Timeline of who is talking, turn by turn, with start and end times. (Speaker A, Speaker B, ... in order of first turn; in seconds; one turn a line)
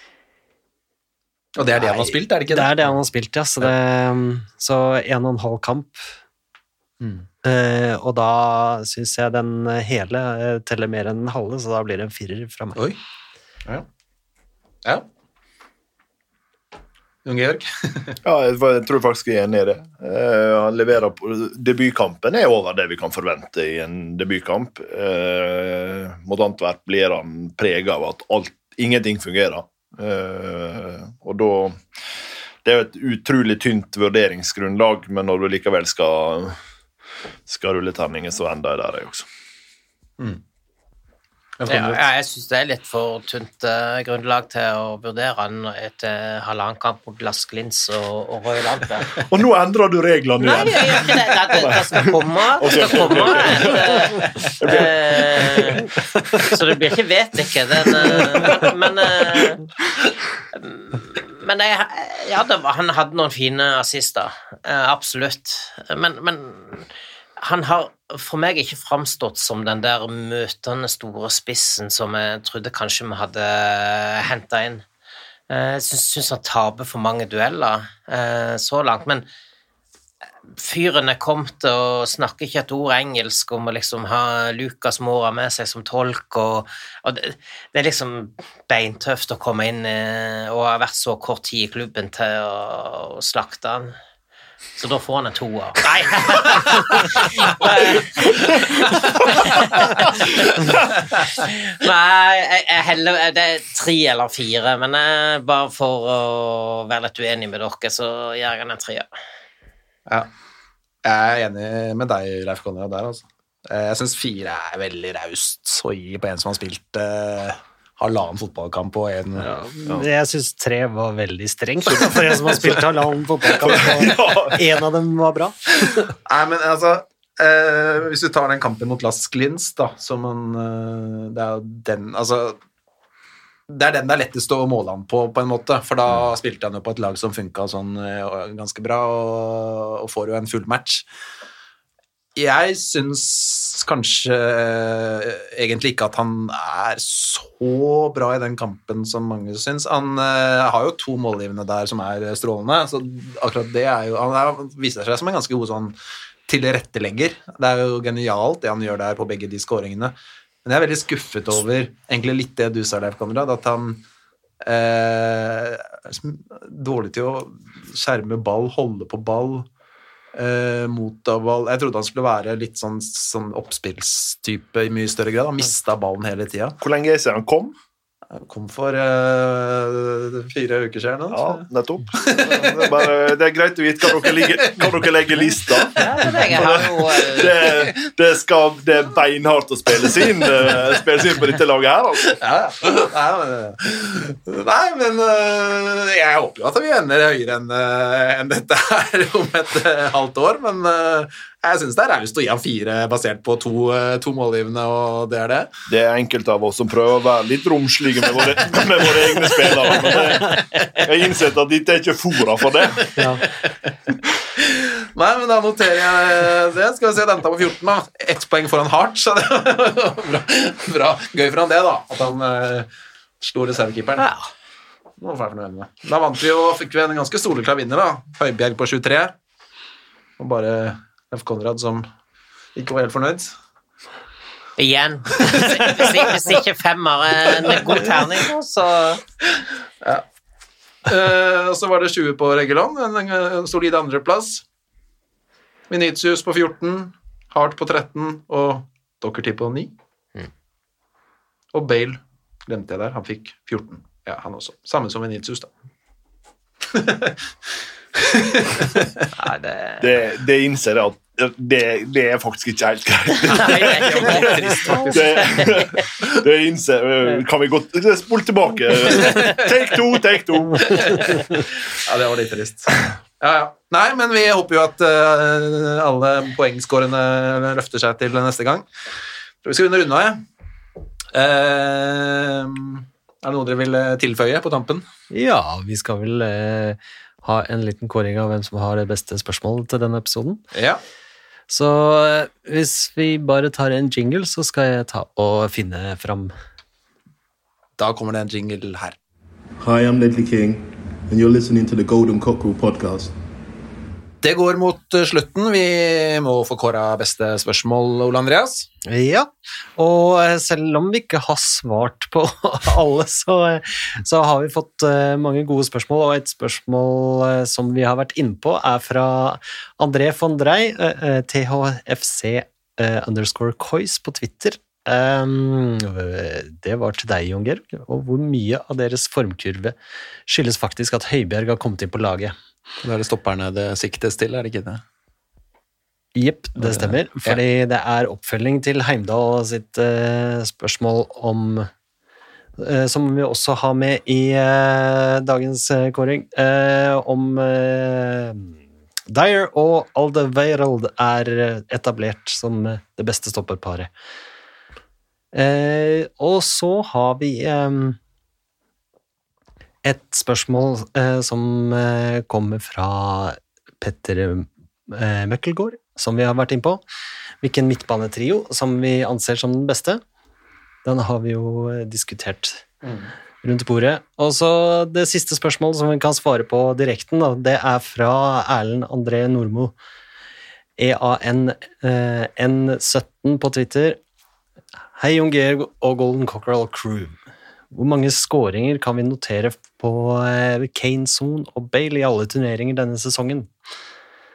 Speaker A: 1.6-2.9
Speaker B: 1.8-6.1
Speaker A: 7.0-7.2
Speaker B: 7.4-12.8
Speaker A: 17.2-18.2
Speaker C: 18.2-31.8
Speaker C: 32.6-36.6
Speaker C: 37.5-39.3
Speaker A: 41.6-42.0
Speaker D: 41.7-49.3
Speaker C: 49.3-56.6
Speaker D: 50.4-55.9
Speaker D: 56.4-59.6
Speaker C: 57.9-58.7
Speaker D: 60.5-74.8
Speaker D: 75.5-79.2
Speaker D: 80.5-94.0
Speaker D: 94.8-109.1
Speaker A: 111.0-119.5
Speaker B: 119.4-126.1
Speaker A: 121.9-122.7
Speaker C: 123.5-124.6
Speaker A: 126.2-132.6
Speaker A: 133.7-141.1
Speaker A: 142.3-155.9
Speaker A: 156.5-164.0
Speaker A: 164.6-169.7
Speaker A: 170.3-176.8
Speaker C: 176.8-177.7
Speaker A: 178.3-183.1
Speaker C: 181.3-192.4
Speaker A: 184.2-184.9
Speaker A: 185.8-186.2
Speaker D: 186.0-187.9
Speaker A: 192.2-205.7
Speaker C: 205.9-213.1
Speaker A: 209.4-210.3
Speaker B: 213.2-213.4
Speaker A: 213.4-213.9
Speaker A: 214.6-222.9
Speaker A: 223.4-224.3
Speaker D: 224.2-224.5
Speaker A: 225.2-229.3
Speaker A: 230.4-232.1
Speaker A: 232.8-233.5
Speaker D: 234.8-239.2
Speaker A: 235.4-236.1
Speaker A: 241.0-244.6
Speaker A: 245.9-249.9
Speaker A: 251.7-255.7
Speaker A: 256.9-259.3
Speaker D: 259.4-260.1
Speaker C: 260.0-271.2
Speaker D: 263.4-265.2
Speaker A: 263.7-265.7
Speaker A: 271.0-271.4
Speaker A: 272.0-278.9
Speaker A: 279.6-280.4
Speaker A: 281.3-285.1
Speaker B: 285.3-290.6
Speaker A: 290.7-291.0
Speaker B: 291.7-296.5
Speaker A: 298.0-299.1
Speaker E: 299.8-303.3
Speaker A: 304.4-308.9
Speaker B: 309.1-329.9
Speaker B: 330.5-332.5
Speaker A: 333.0-335.0
Speaker B: 336.4-341.9
Speaker A: 336.8-337.6
Speaker B: 342.8-348.7
Speaker B: 349.3-354.1
Speaker B: 355.5-358.2
Speaker B: 360.0-367.0
Speaker B: 367.6-370.2
Speaker B: 371.0-372.8
Speaker A: 373.0-373.3
Speaker B: 373.6-379.9
Speaker B: 381.0-384.2
Speaker B: 385.2-387.4
Speaker B: 387.9-393.7